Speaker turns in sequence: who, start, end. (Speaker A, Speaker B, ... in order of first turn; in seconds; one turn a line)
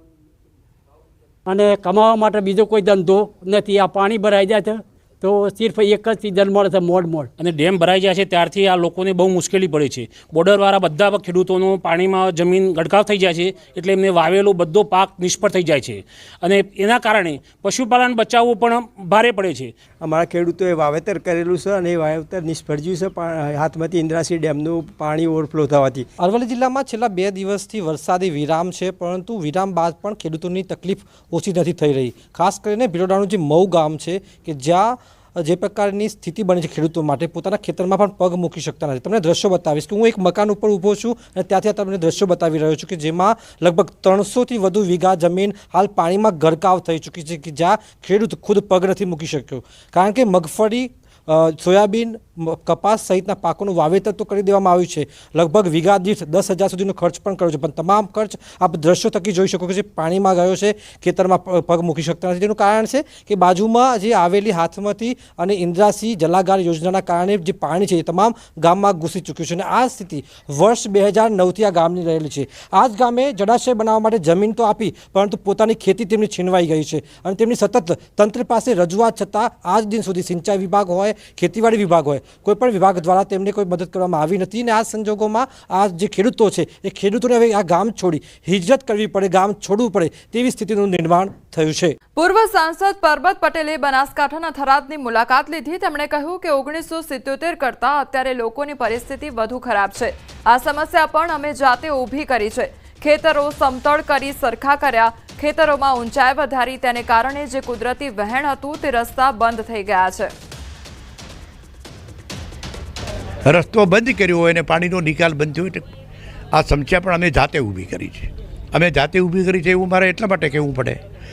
Speaker A: 1.4-7.3
Speaker B: 7.3-19.7
Speaker C: 20.0-26.1
Speaker D: 26.2-91.9
Speaker E: 92.2-110.3
Speaker F: 113.4-115.8
Speaker F: 116.5-121.0